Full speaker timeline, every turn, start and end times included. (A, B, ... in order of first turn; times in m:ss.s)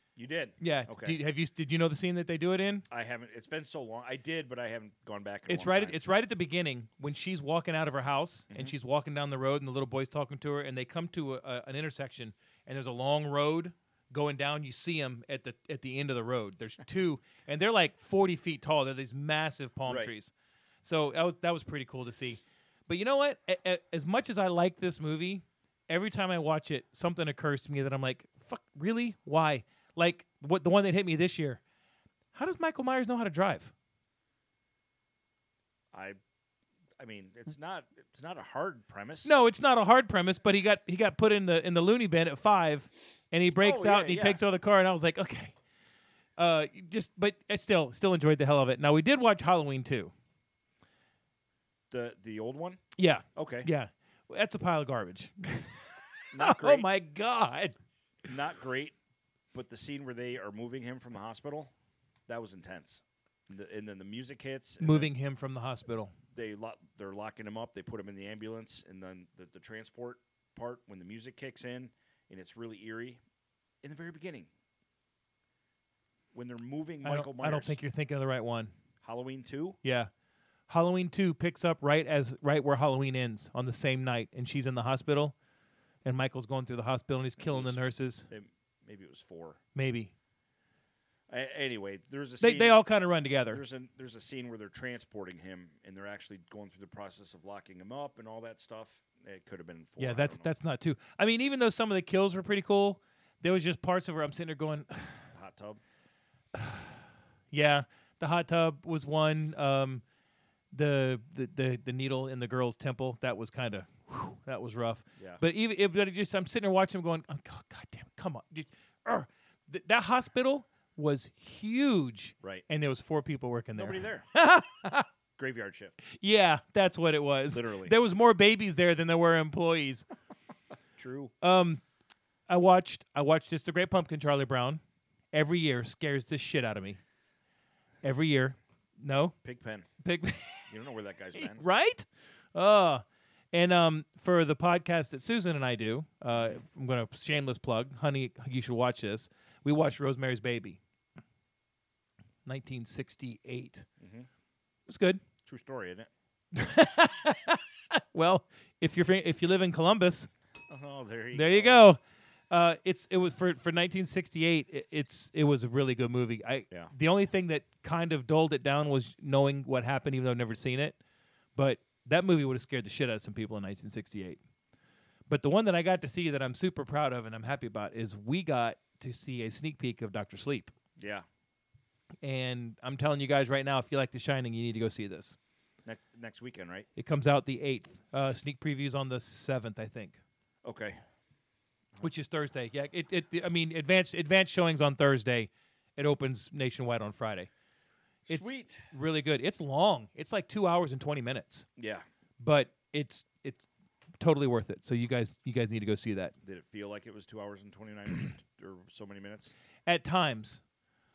0:00.2-0:01.2 A
0:00.6-0:02.9 B
0:02.9-0:06.0 A
0:05.5-0:31.6 B
0:08.5-0:08.8 A
0:19.9-0:20.1 A
0:32.3-0:33.7 B
0:35.9-0:36.2 A
0:37.0-0:39.4 A
0:39.2-0:45.6 B
0:43.6-0:44.4 A
0:46.4-0:50.1 B
0:51.9-0:52.8 A
0:53.0-0:57.8 B
0:53.4-0:53.7 A
0:56.3-0:56.9 A
0:58.2-0:59.0 A
0:59.5-1:01.7 A
1:02.3-1:05.1 A
1:04.8-1:06.1 B
1:06.3-1:13.2 A
1:13.8-1:14.5 A
1:16.3-1:17.8 A
1:17.0-1:18.7 B
1:19.0-1:19.8 A
1:19.8-1:20.1 B
1:20.7-1:25.4 B
1:26.0-1:28.3 B
1:27.4-1:29.6 A
1:29.8-1:30.1 B
1:31.3-1:32.8 A
1:32.4-1:33.6 B
1:33.5-1:40.5 A
1:40.0-1:45.2 B
1:45.3-1:45.8 A
1:46.5-1:50.0 B
1:50.7-2:05.1 B
1:55.2-1:55.4 A
2:03.8-2:04.3 A
2:05.4-2:06.0 A
2:06.0-2:10.0 B
2:07.5-2:08.0 A
2:11.0-2:11.3 A
2:11.4-2:11.8 B
2:12.5-2:14.8 B
2:15.3-2:17.0 B
2:18.0-2:19.3 B
2:19.4-2:19.9 A
2:20.0-2:20.7 B
2:20.7-2:21.6 A
2:21.4-2:30.8 B
2:26.3-2:26.6 A
2:32.4-2:33.9 B
2:34.0-2:34.3 A
2:34.9-2:35.2 B
2:35.4-2:36.1 A
2:36.5-2:40.3 B
2:40.7-2:41.8 A
2:41.3-2:51.0 B
2:51.6-2:54.4 B
2:55.3-3:00.7 B
3:01.0-3:01.2 A
3:02.2-3:05.4 B
3:05.8-3:06.9 A
3:07.0-3:10.2 B
3:10.6-3:11.0 A
3:12.0-3:17.5 B
3:18.3-3:18.9 A
3:18.3-3:21.7 B
3:21.8-3:22.0 A
3:22.4-3:23.7 B
3:24.2-3:26.3 B
3:26.4-3:29.5 A
3:29.9-3:30.6 B